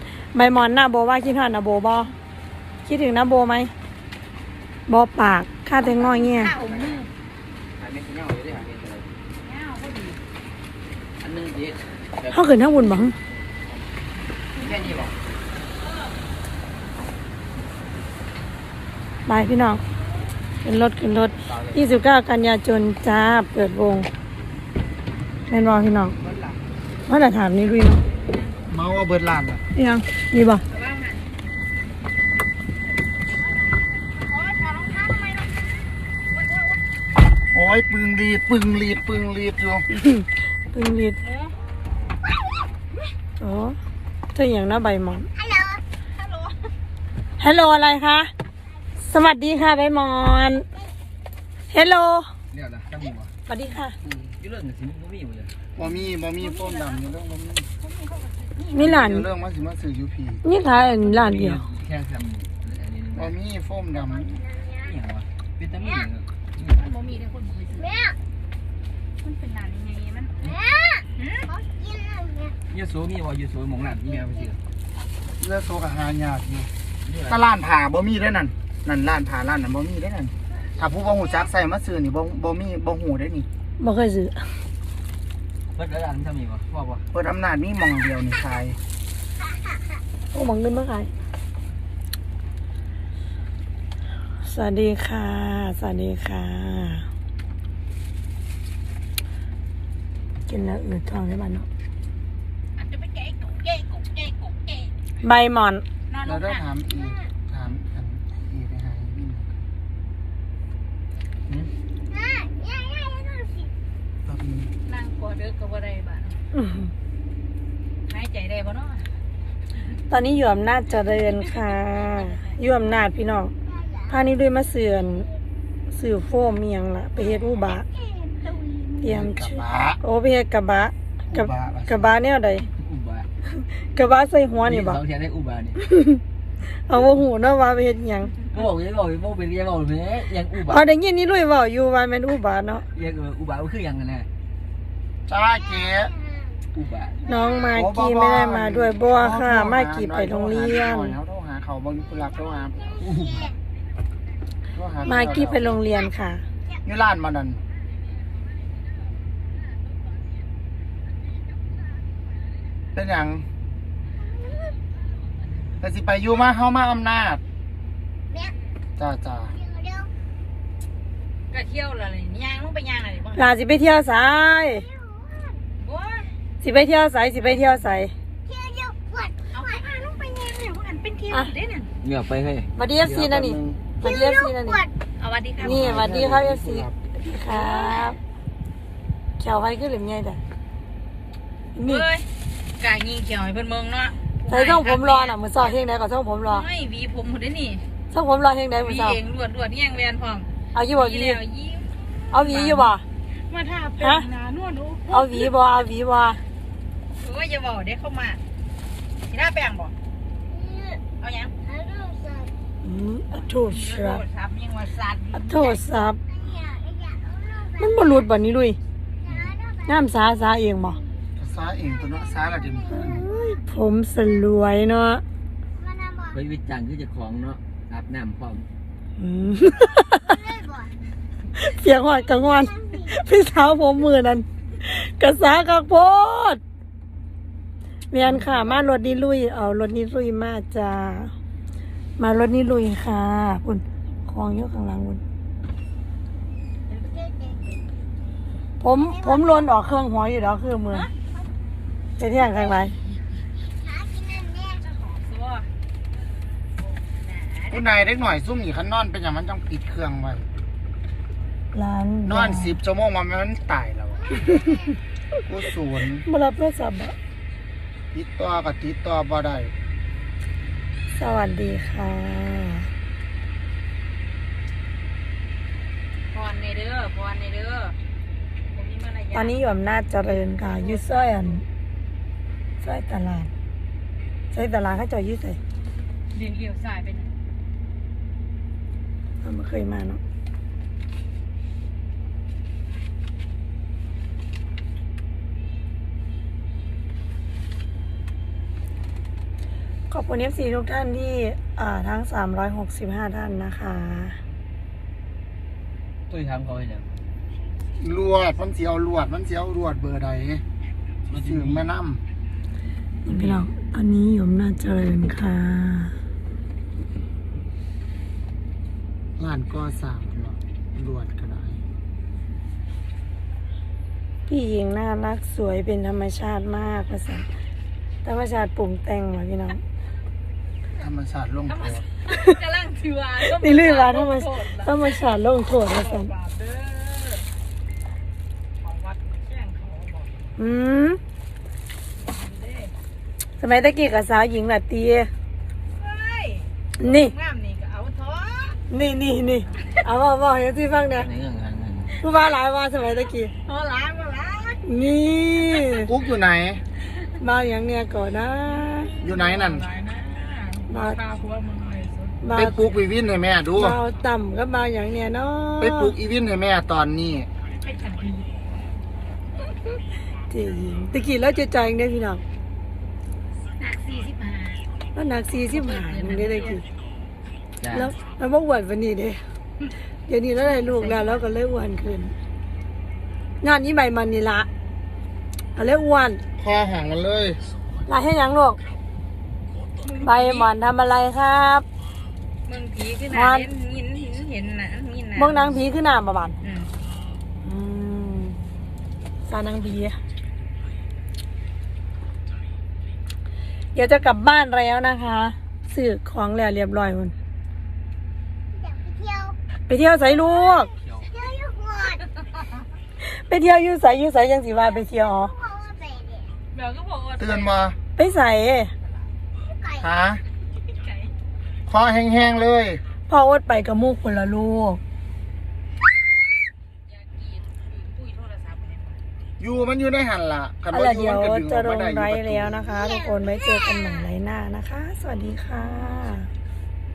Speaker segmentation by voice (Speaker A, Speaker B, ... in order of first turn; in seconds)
Speaker A: 0.3-2.1, 2.8-3.7, 4.9-6.5, 12.3-13.2, 19.3-19.8, 20.6-24.1, 25.5-26.1, 27.1-28.0, 29.7-30.6, 39.9-41.2, 43.4-43.8, 44.3-45.3, 47.4-48.3, 49.0-50.6, 51.7-52.3, 53.5-54.0, 58.7-59.3, 60.4-61.7, 83.8-84.5, 90.3-91.1, 94.4-97.0, 100.5-101.7, 105.2-105.8, 116.5-116.9, 120.1-123.5, 124.1-125.3, 125.9-127.8, 129.0-132.7, 133.6-135.0, 135.8-136.2, 136.7-138.3, 140.6-142.8, 147.2-151.2, 155.0-156.4, 173.3-174.9, 176.6-178.1, 182.8-184.8, 185.6-188.2, 189.4-190.4, 191.7-192.1, 194.5-196.6, 198.1-199.2, 200.7-201.4, 202.3-203.0, 204.0-204.2, 205.1-206.4, 212.8-214.2, 215.3-216.2, 217.8-218.8, 219.8-221.0, 222.9-225.2, 229.2-230.4, 231.5-236.6, 238.1-241.3, 242.2-245.2, 248.8-251.1, 252.2-252.9, 261.7-262.8, 266.2-267.1, 271.1-272.9, 279.3-281.6, 282.8-283.5, 284.5-285.6, 289.4-290.2, 300.1-304.4, 313.2-316.1, 324.5-327.5, 328.2-329.8, 333.4-336.3, 340.6-341.2, 343.6-345.3, 347.0-347.3, 348.9-351.3, 352.2-353.5, 354.8-356.1, 357.4-359.1, 360.9-361.2, 362.4-362.9, 363.7-366.1, 370.5-372.4, 375.1-376.8, 377.9-379.4, 380.3-382.3, 383.6-384.7, 385.8-386.4, 388.1-388.8, 390.2-391.9, 393.3-393.7, 395.3-396.6, 397.6-398.6, 399.4-400.2, 403.9-407.3, 409.9-410.9, 413.2-415.5, 418.1-418.9, 423.3-425.0, 430.9-436.5
Speaker B: 5.8-7.1, 9.3-10.2, 14.5-15.1, 15.8-16.1, 28.2-28.6, 30.6-31.2, 34.2-36.8, 41.2-41.6, 46.1-46.7, 55.8-57.1, 57.8-58.9, 65.8-66.1, 66.7-68.0, 69.2-70.4, 71.2-71.5, 102.8-104.9, 106.1-106.6, 114.8-116.4, 118.0-119.1, 122.0-122.6, 171.5-173.5, 175.8-176.3, 179.5-181.9, 185.2-185.8, 187.5-188.1, 191.8-192.3, 192.8-195.4, 196.4-197.8, 198.8-202.9, 203.5-205.5, 207.1-208.4, 209.2-209.9, 211.2-211.6, 213.3-215.8, 254.7-255.7, 256.8-257.8, 276.3-277.9, 278.7-281.4, 286.3-287.3, 331.7-337.5, 338.8-340.4, 342.2-342.9, 345.9-348.8, 353.6-354.8, 358.7-362.4, 367.8-368.5, 373.8-374.8, 375.7-376.8, 380.5-381.4, 390.0-390.7, 392.6-395.8, 396.6-396.9, 416.7-417.7, 420.9-421.3, 427.1-429.2
Speaker C: 6.5-7.0, 7.8-9.1, 11.2-13.1, 14.6-15.1, 21.4-21.9, 52.5-53.3, 54.4-55.5, 60.7-63.4, 64.7-66.8, 72.7-74.6, 77.0-77.4, 85.7-87.0, 132.8-133.3, 134.6-135.8, 138.5-140.8, 142.9-144.3, 146.7-147.3, 153.0-153.5, 182.0-182.7, 226.3-228.7, 306.3-307.1, 311.3-311.9, 313.2-313.7, 351.1-352.2, 377.8-378.1, 410.9-411.3
Speaker D: 26.2-26.6, 28.7-29.6, 37.5-39.9, 55.8-57.7, 58.7-60.4, 63.2-64.4, 75.4-76.7, 77.3-83.5, 87.1-88.8, 106.2-109.5, 114.2-114.7, 129.0-130.0, 131.3-132.1, 145.3-146.1, 147.7-153.1, 154.7-155.8, 156.8-157.6, 162.9-163.4, 165.8-167.4, 169.0-169.6, 183.1-183.8, 185.6-186.9, 219.3-219.6, 221.4-223.2, 257.7-260.5, 262.2-264.4, 265.5-266.2, 268.1-269.7, 308.0-310.6, 311.4-312.2, 319.4-321.8, 330.9-332.0, 355.9-356.8, 359.2-359.8, 362.5-364.0, 365.8-367.5, 386.6-387.6, 417.4-418.0, 420.0-420.4, 421.9-423.0, 429.6-432.9
Speaker E: 45.5-45.8, 71.5-72.5, 112.1-113.7, 128.0-129.0, 153.2-153.5, 169.8-170.1, 174.9-175.6, 178.5-179.3, 210.6-211.0, 211.8-212.5, 216.5-217.7, 222.8-223.2, 225.8-226.2, 230.3-230.9, 253.9-254.6, 408.8-409.6, 410.7-412.2, 415.5-416.5, 419.7-419.9